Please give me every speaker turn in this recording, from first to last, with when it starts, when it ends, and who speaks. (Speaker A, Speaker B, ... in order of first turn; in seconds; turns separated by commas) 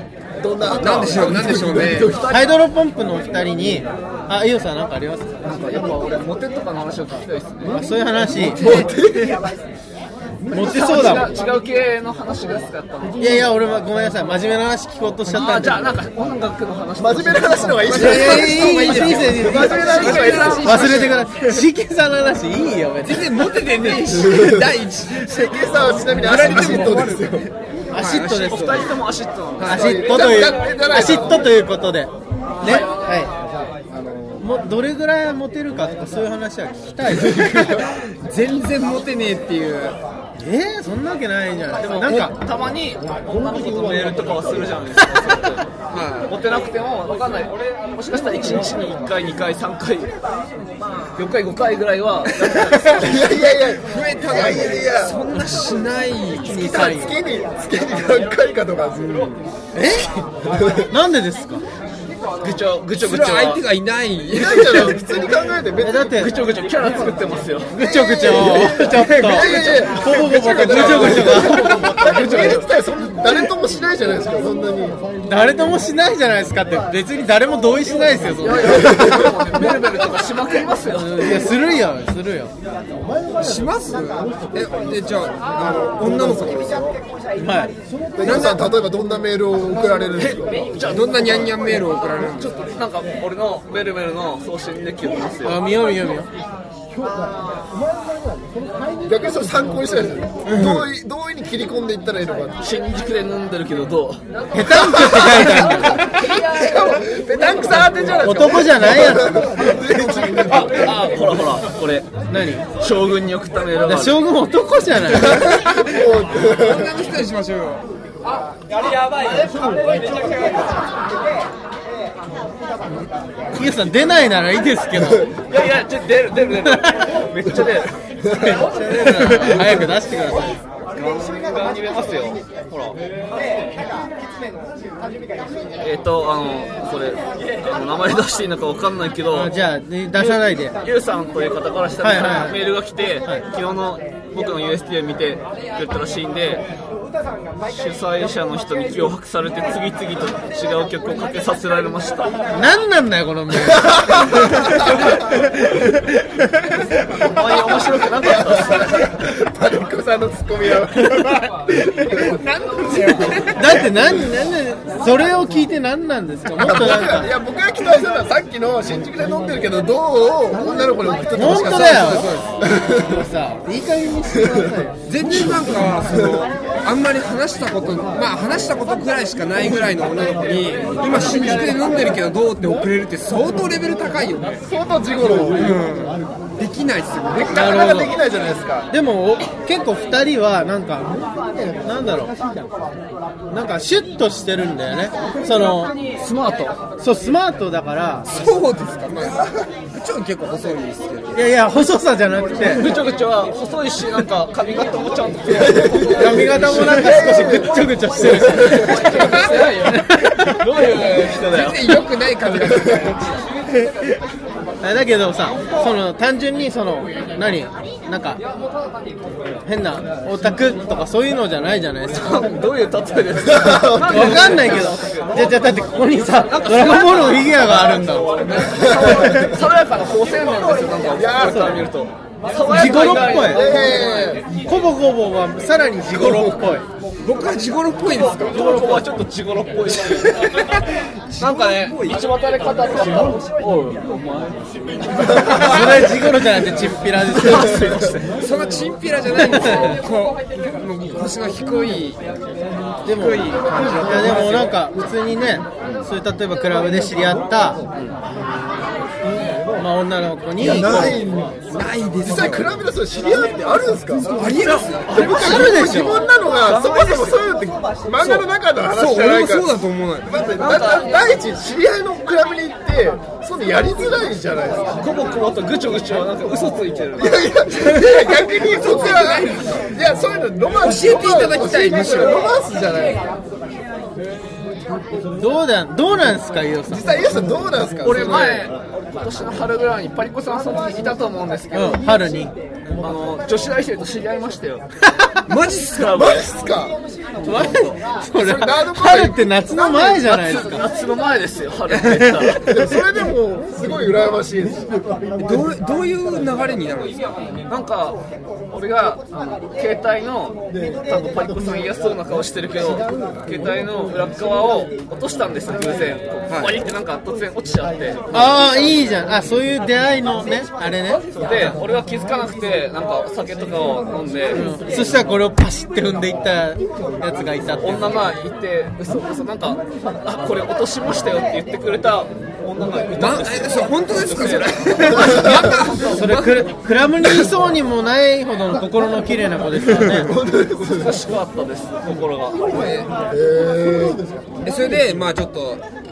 Speaker A: 0.4-2.5, Speaker B: 0.5-2.3, Speaker C: 0.8-2.1, Speaker D: 2.2-5.4, Speaker A: 5.4-7.8, Speaker D: 7.7-8.6, Speaker A: 8.4-8.9, Speaker B: 8.6-9.4, Speaker D: 10.5-11.3, Speaker A: 10.5-13.2, Speaker D: 13.2-15.9, Speaker A: 15.3-17.9, Speaker B: 17.0-20.7, Speaker C: 17.9-21.6, Speaker D: 17.9-20.0, Speaker A: 19.2-21.1, Speaker D: 20.6-23.3, Speaker C: 23.0-28.9, Speaker B: 24.2-24.5, Speaker B: 25.3-27.5, Speaker D: 27.9-28.9, Speaker A: 28.3-30.7, Speaker C: 29.6-29.9, Speaker D: 29.7-33.3, Speaker B: 29.7-31.5, Speaker D: 34.4-37.8, Speaker C: 37.6-40.0, Speaker D: 40.4-42.3, Speaker A: 41.8-45.7, Speaker C: 45.9-46.3, Speaker A: 46.3-50.1, Speaker A: 51.1-53.5, Speaker B: 52.9-55.2, Speaker C: 53.9-56.8, Speaker D: 56.5-57.1, Speaker B: 56.5-59.3, Speaker A: 59.0-59.3, Speaker D: 59.7-60.1, Speaker B: 60.5-60.9, Speaker D: 60.9-61.6, Speaker A: 62.4-63.6, Speaker C: 63.0-65.0, Speaker B: 64.3-66.2, Speaker D: 65.8-66.3, Speaker A: 66.0-68.1, Speaker D: 67.7-72.5, Speaker B: 69.1-75.0, Speaker A: 69.5-72.7, Speaker C: 70.8-71.1, Speaker D: 75.3-79.3, Speaker A: 78.4-81.4, Speaker D: 80.9-82.5, Speaker C: 83.4-86.9, Speaker B: 86.2-86.8, Speaker D: 87.4-87.7, Speaker B: 88.2-90.6, Speaker C: 88.2-88.7, Speaker A: 90.2-91.5, Speaker C: 90.8-92.6, Speaker A: 92.3-95.6, Speaker D: 95.4-96.3, Speaker B: 99.0-102.6, Speaker C: 100.5-100.8, Speaker A: 102.6-104.2, Speaker D: 104.5-106.3, Speaker B: 106.3-111.1, Speaker D: 108.2-109.6, Speaker A: 110.5-112.1, Speaker D: 112.3-112.7, Speaker A: 112.8-114.2, Speaker D: 113.8-115.6, Speaker B: 115.6-116.9, Speaker C: 116.3-117.8, Speaker D: 123.5-125.3, Speaker A: 125.5-127.9, Speaker D: 126.6-127.0, Speaker B: 128.3-128.6, Speaker D: 128.3-130.6, Speaker A: 130.9-133.0, Speaker A: 135.8-139.5, Speaker D: 139.3-140.8, Speaker A: 140.2-146.6, Speaker D: 142.0-143.4, Speaker A: 147.7-152.3, Speaker D: 152.5-154.9, Speaker A: 157.2-159.0, Speaker B: 158.4-161.3, Speaker C: 162.2-163.7, Speaker D: 163.5-167.3, Speaker B: 166.6-173.1, Speaker D: 171.3-172.3, Speaker C: 171.5-172.6, Speaker D: 172.8-174.9, Speaker C: 175.1-184.6, Speaker B: 184.7-185.8, Speaker C: 185.5-187.8, Speaker B: 187.3-188.9, Speaker D: 187.5-188.2, Speaker D: 188.9-191.2, Speaker D: 191.8-192.3, Speaker D: 193.5-196.0, Speaker A: 196.1-196.8, Speaker D: 197.0-198.3, Speaker C: 198.3-201.4, Speaker D: 201.3-202.9, Speaker A: 202.6-207.1, Speaker B: 205.6-207.8, Speaker D: 206.1-210.6, Speaker A: 208.6-211.8, Speaker C: 211.3-213.4, Speaker D: 214.8-218.4, Speaker D: 219.6-222.4, Speaker A: 222.1-225.5, Speaker B: 223.6-224.6, Speaker D: 224.0-228.4, Speaker A: 226.5-234.4, Speaker B: 231.1-231.8, Speaker D: 232.7-233.7, Speaker B: 233.4-234.5, Speaker D: 234.6-236.8, Speaker B: 236.2-236.5, Speaker C: 237.2-239.0, Speaker A: 238.1-240.8, Speaker C: 241.3-242.2, Speaker A: 241.4-245.7, Speaker D: 245.4-247.8, Speaker C: 245.5-246.1, Speaker A: 247.3-248.3, Speaker C: 248.4-252.3, Speaker D: 249.4-250.0, Speaker C: 253.0-254.8, Speaker D: 253.1-257.8, Speaker D: 259.7-261.2, Speaker B: 260.6-261.6, Speaker C: 261.7-262.7, Speaker B: 262.2-264.4, Speaker C: 264.4-265.4, Speaker A: 265.0-265.6, Speaker B: 265.1-269.7, Speaker D: 265.1-266.2, Speaker A: 266.6-267.4, Speaker C: 268.2-270.3, Speaker B: 270.3-275.0, Speaker A: 270.6-271.2, Speaker A: 275.0-277.5, Speaker B: 277.2-283.2, Speaker C: 278.8-279.8, Speaker C: 280.8-282.5, Speaker D: 285.4-287.1, Speaker B: 286.9-288.7, Speaker A: 288.0-292.0, Speaker D: 291.7-292.5, Speaker A: 293.0-294.9, Speaker C: 295.5-296.3, Speaker A: 295.9-296.5, Speaker B: 296.1-296.9, Speaker A: 297.4-297.9, Speaker D: 297.4-300.8, Speaker B: 298.3-299.4, Speaker A: 299.7-302.6, Speaker B: 302.6-304.9, Speaker C: 305.4-307.2, Speaker A: 307.7-308.2, Speaker A: 308.7-318.3, Speaker C: 316.5-316.8, Speaker D: 318.3-321.2, Speaker A: 321.3-324.6, Speaker D: 324.5-328.3, Speaker A: 327.8-336.3, Speaker C: 333.2-336.4, Speaker D: 336.0-340.3, Speaker B: 340.1-341.2, Speaker A: 340.8-342.6, Speaker C: 342.7-343.1, Speaker B: 343.3-344.2, Speaker C: 344.6-345.8